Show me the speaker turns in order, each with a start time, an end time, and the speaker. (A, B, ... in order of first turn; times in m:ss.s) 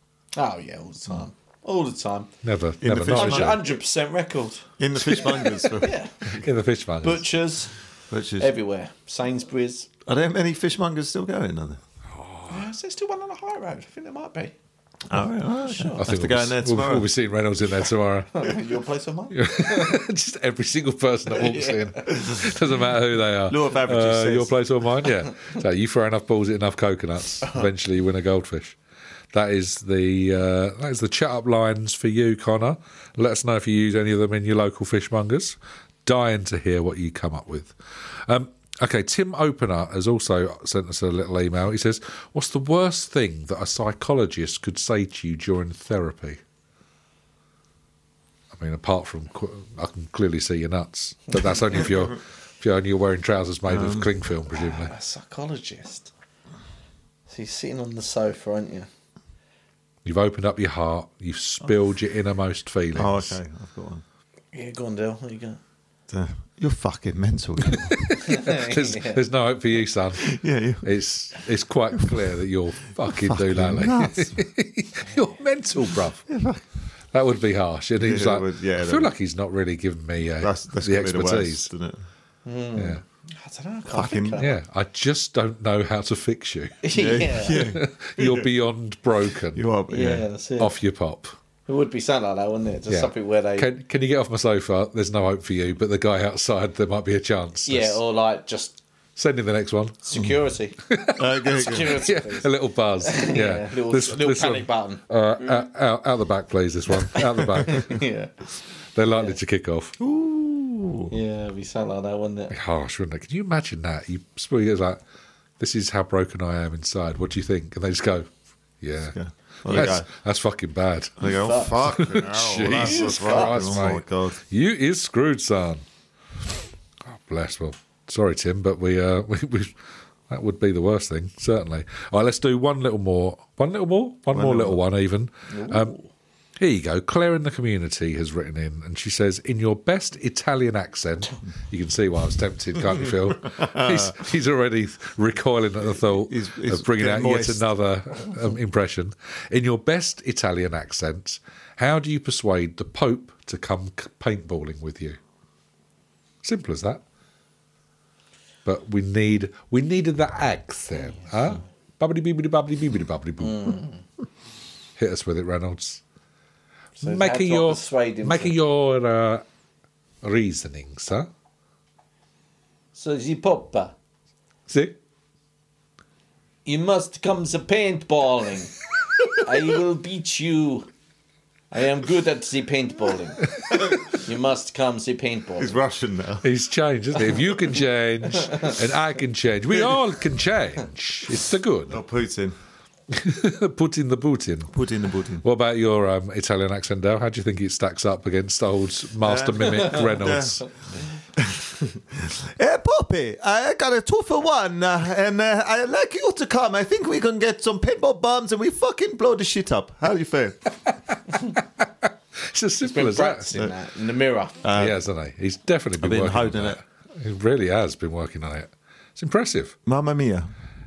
0:00.4-0:02.3 A
0:02.4-0:03.6 B
0:02.8-0:03.6 C
0:03.2-0:06.2 A
0:04.8-0:06.5 C
0:06.3-0:07.2 B
0:07.0-0:07.7 A
0:08.1-0:08.5 C
0:08.4-0:09.9 A
0:10.0-0:11.8 C
0:12.1-0:12.7 B
0:12.5-0:14.6 A
0:15.1-0:17.1 C
0:15.7-0:16.0 A
0:15.9-0:18.5 B
0:18.3-0:20.0 A
0:19.3-0:28.8 B
0:21.3-0:22.4 A
0:23.5-0:24.8 C
0:29.3-0:37.8 B
0:38.3-0:46.4 B
0:48.5-0:54.9 B
0:53.7-0:54.2 C
0:54.5-0:56.1 A
0:57.3-0:58.9 A
1:00.0-1:03.4 B
1:03.0-1:04.0 C
1:04.5-1:05.6 A
1:06.1-1:08.2 C
1:07.8-1:16.3 B
1:08.2-1:09.2 A
1:10.2-1:10.9 C
1:12.0-1:12.4 C
1:13.1-1:14.4 C
1:16.3-1:16.6 C
1:17.1-1:21.7 B
1:18.0-1:19.1 C
1:20.4-1:22.0 C
1:22.4-1:24.5 A
1:22.8-1:23.0 B
1:23.9-1:24.5 C
1:24.4-1:26.8 B
1:26.8-1:27.7 A
1:26.9-1:28.5 C
1:27.5-1:29.6 B
1:29.5-1:30.3 C
1:29.9-1:30.8 A
1:30.6-1:31.4 B
1:31.7-1:33.8 A
1:32.9-1:38.0 B
1:37.7-1:38.8 A
1:39.2-1:40.0 B
1:40.0-1:40.8 A
1:40.9-1:48.0 B
1:41.2-1:42.1 C
1:41.5-1:45.0 A
1:47.0-1:48.3 A
1:49.0-1:50.0 B
1:50.0-1:51.1 C
1:51.1-1:52.5 A
1:52.5-1:55.0 B
1:55.6-2:05.8 B
1:59.1-2:00.1 C
2:01.2-2:04.4 C
2:01.2-2:01.9 A
2:02.6-2:03.8 A
2:07.1-2:09.8 B
2:10.3-2:16.0 B
2:14.3-2:14.8 C
2:15.5-2:16.0 A
2:16.6-2:35.2 B
2:23.0-2:24.2 C
2:26.0-2:27.7 C
2:36.4-2:37.0 B
2:38.6-2:43.8 B
2:43.4-2:43.9 A
2:45.0-2:46.0 B
2:47.0-2:48.6 A
2:47.0-2:49.4 B
2:50.2-2:51.3 B
2:53.0-2:53.9 A
2:54.7-2:55.0 B
2:56.7-2:58.8 A
2:59.3-3:00.9 A
3:01.7-3:05.8 A
3:03.7-3:04.0 C
3:05.6-3:06.5 C
3:06.4-3:12.0 B
3:11.9-3:12.6 C
3:13.1-3:14.7 B
3:14.7-3:15.4 C
3:15.4-3:20.7 B
3:19.2-3:20.7 C
3:21.4-3:30.7 C
3:31.3-3:31.9 B
3:32.5-3:33.5 B
3:32.8-3:34.6 A
3:34.6-3:35.0 C
3:34.8-3:39.8 B
3:36.0-3:36.8 C
3:39.9-3:40.5 C